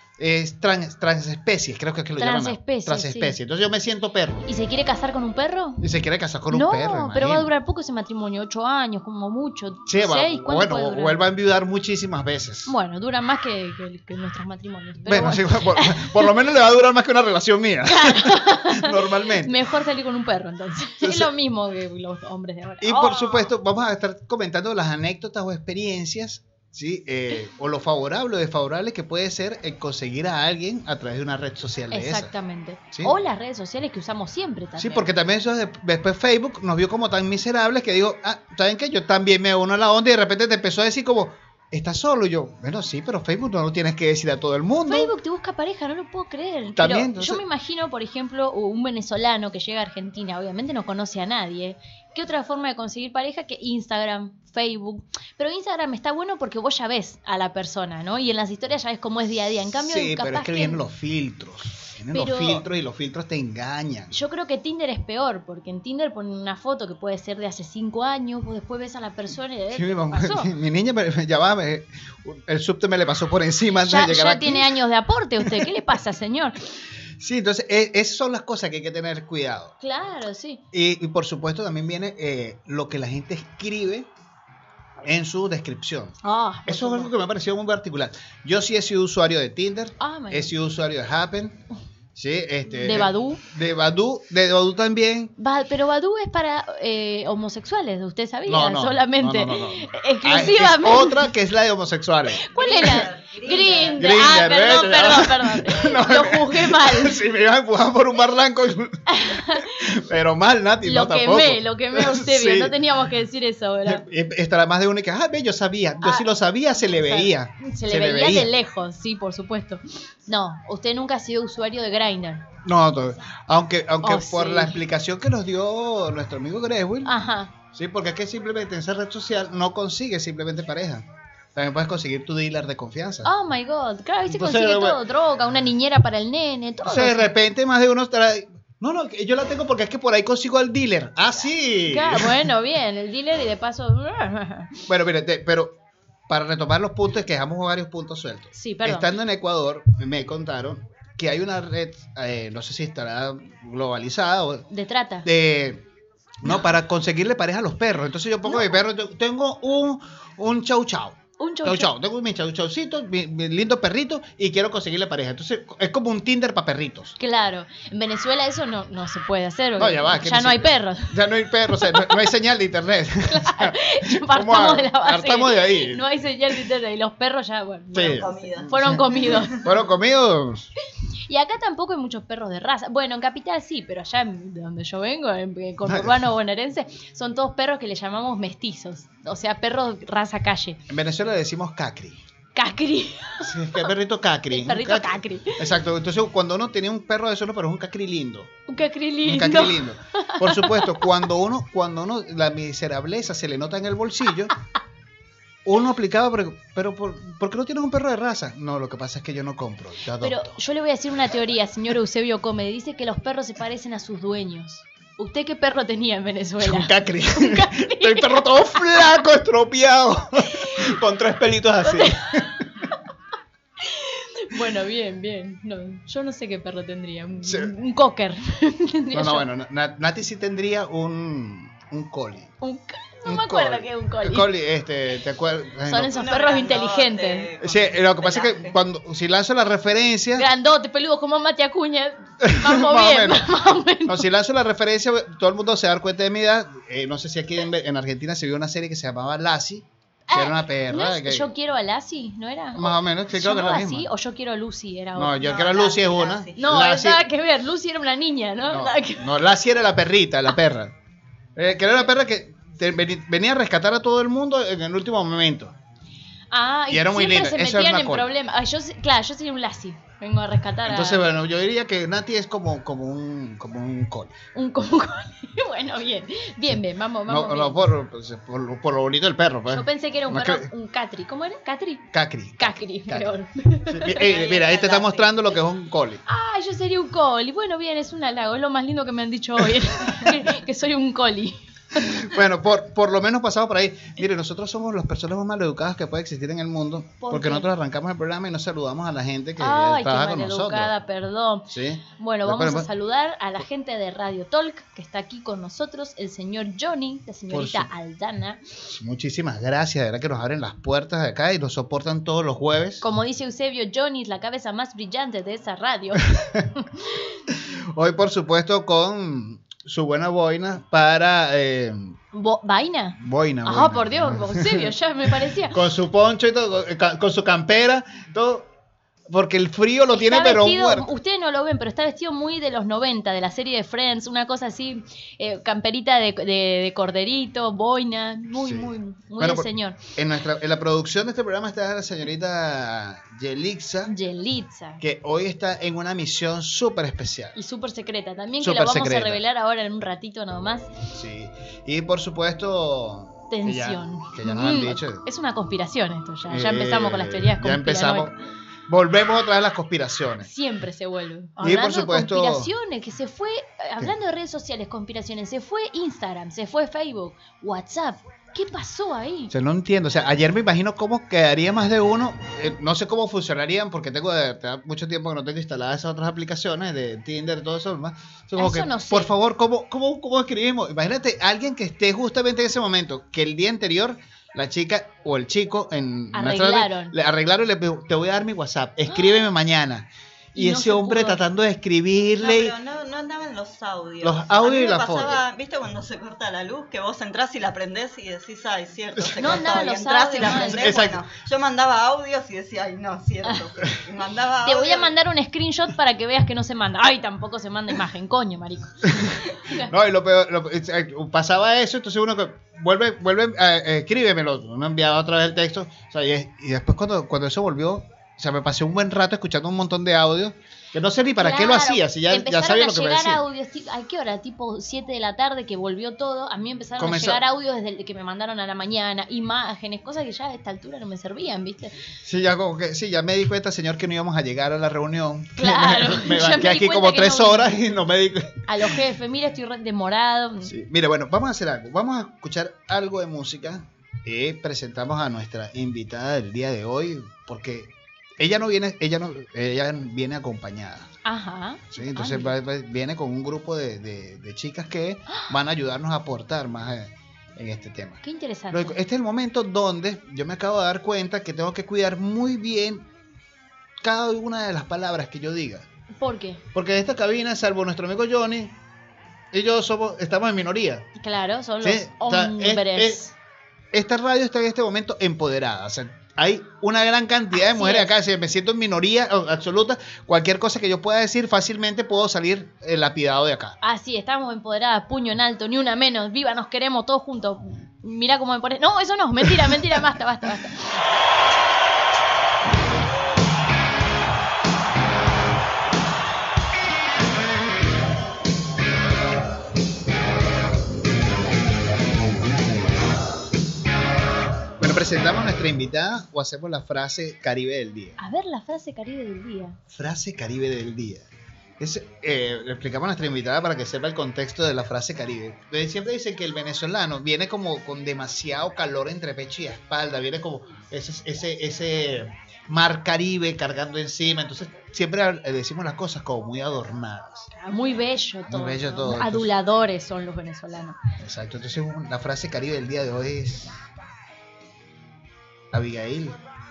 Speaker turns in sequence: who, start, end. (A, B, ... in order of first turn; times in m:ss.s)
0:00.2-0:04.5 A
0:02.2-0:03.4 B
0:04.5-0:05.8 B
0:05.8-0:07.5 A
0:06.5-0:11.2 B
0:09.9-0:12.7 A
0:12.7-0:16.3 B
0:15.1-0:19.6 A
0:17.9-0:23.2 B
0:21.0-0:21.3 A
0:22.8-0:32.3 A
0:22.9-0:23.5 C
0:31.9-0:35.1 B
0:34.8-0:45.1 A
0:44.9-1:00.8 B
0:46.8-0:47.4 A
0:59.8-1:04.2 A
1:02.1-1:02.6 B
1:04.1-1:10.5 B
1:09.7-1:14.7 A
1:13.8-1:16.6 B
1:15.4-1:15.7 A
1:17.2-1:19.7 A
1:19.8-1:20.6 B
1:20.7-1:24.1 A
1:25.0-1:31.6 A
1:26.2-1:27.1 B
1:30.0-1:30.5 B
1:32.2-1:35.3 A
1:32.8-1:33.4 B
1:35.4-1:41.3 B
1:38.5-1:42.5 A
1:42.4-1:47.2 B
1:42.5-1:44.3 C
1:44.0-1:52.8 A
1:49.1-1:49.7 B
1:50.8-1:54.0 B
1:53.8-1:58.5 A
1:56.0-1:56.3 B
1:56.8-2:02.4 B
2:02.6-2:07.1 A
2:04.0-2:04.8 B
2:07.0-2:07.5 B
2:07.7-2:13.3 A
2:13.2-2:17.3 B
2:14.3-2:15.0 A
2:16.8-2:22.5 A
2:21.9-2:24.8 B
2:24.9-2:25.7 A
2:26.3-2:34.7 A
2:28.6-2:29.1 B
2:34.7-2:35.3 B
2:35.2-2:35.8 A
2:36.4-2:47.2 A
2:38.5-2:38.8 B
2:41.4-2:41.9 B
2:47.2-2:52.3 B
2:49.8-2:56.0 A
2:53.3-2:59.7 B
2:57.9-3:00.7 A
2:58.0-2:59.4 C
3:01.3-3:10.8 B
3:05.8-3:06.2 A
3:10.9-3:12.2 A
3:12.6-3:13.9 B
3:13.4-3:18.5 A
3:14.5-3:15.6 B
3:18.7-3:21.2 B
3:19.2-3:24.5 A
3:25.6-3:30.6 A
3:30.2-3:39.1 B
3:36.6-3:42.6 A
3:41.9-3:42.4 B
3:43.8-3:49.5 B
3:47.4-3:47.7 A
3:49.1-3:52.5 A
3:52.6-3:54.5 B
3:53.2-3:56.1 A
3:55.9-3:57.5 B
3:56.1-3:58.8 C
3:57.6-4:00.5 A
4:00.4-4:04.3 B
4:02.4-4:11.5 A
4:10.3-4:15.8 B
4:12.8-4:14.1 A
4:15.2-4:17.2 A
4:15.4-4:16.6 C
4:16.6-4:19.4 B
4:18.7-4:20.9 A
4:21.6-4:25.7 A
4:26.5-4:31.2 B
4:26.9-4:28.3 A
4:30.9-4:34.3 A
4:34.6-4:37.9 B
4:37.3-4:40.7 A
4:39.7-4:44.5 B
4:42.1-4:43.3 A
4:43.8-4:46.2 A
4:44.2-4:45.2 C
4:46.3-4:51.6 B
4:52.0-5:00.9 A
4:57.2-4:57.7 B
4:59.6-5:08.6 B
5:01.7-5:02.9 A
5:07.5-5:07.9 A
5:08.9-5:13.0 A
5:13.0-5:17.3 B
5:16.4-5:16.7 A
5:17.5-5:22.2 A
5:22.3-5:25.8 B
5:23.2-5:24.9 A
5:25.7-5:28.7 A
5:29.3-5:31.1 A
5:30.1-5:40.0 B
5:38.6-5:44.1 A
5:44.1-5:45.0 B
5:45.0-5:47.6 A
5:47.6-5:50.9 B
5:48.6-5:49.4 A
5:51.1-5:55.2 A
5:53.5-5:58.3 B
5:56.5-5:58.4 A
5:58.9-6:00.5 A
6:00.4-6:09.5 B
6:01.6-6:02.7 A
6:09.5-6:32.8 A
6:18.6-6:19.3 B
6:26.3-6:27.1 B
6:30.6-6:31.4 B
6:32.4-6:45.1 C
6:34.2-6:35.4 A
6:39.4-6:41.0 B
6:40.4-6:41.2 A
6:44.6-6:49.9 B
6:49.1-7:03.4 A
7:01.4-7:12.0 B
7:07.0-7:07.4 A
7:12.2-7:18.9 A
7:15.6-7:17.7 B
7:18.7-7:20.7 B
7:20.6-7:31.1 A
7:31.2-7:32.5 B
7:31.9-7:43.1 A
7:38.2-7:39.0 B
7:44.0-7:45.9 A
7:46.2-7:46.6 B
7:46.7-7:48.8 A
7:49.5-7:51.1 A
7:51.2-7:53.3 B
7:51.8-7:53.2 A
7:53.9-8:03.8 A
7:57.5-7:58.1 B
8:03.8-8:11.0 B
8:24.8-8:28.2 A
8:28.2-8:29.8 B
8:29.9-8:31.3 A
8:31.8-8:47.5 A
8:47.6-8:51.0 B
8:48.5-8:49.5 A
8:51.2-8:53.8 A
8:55.7-8:56.4 A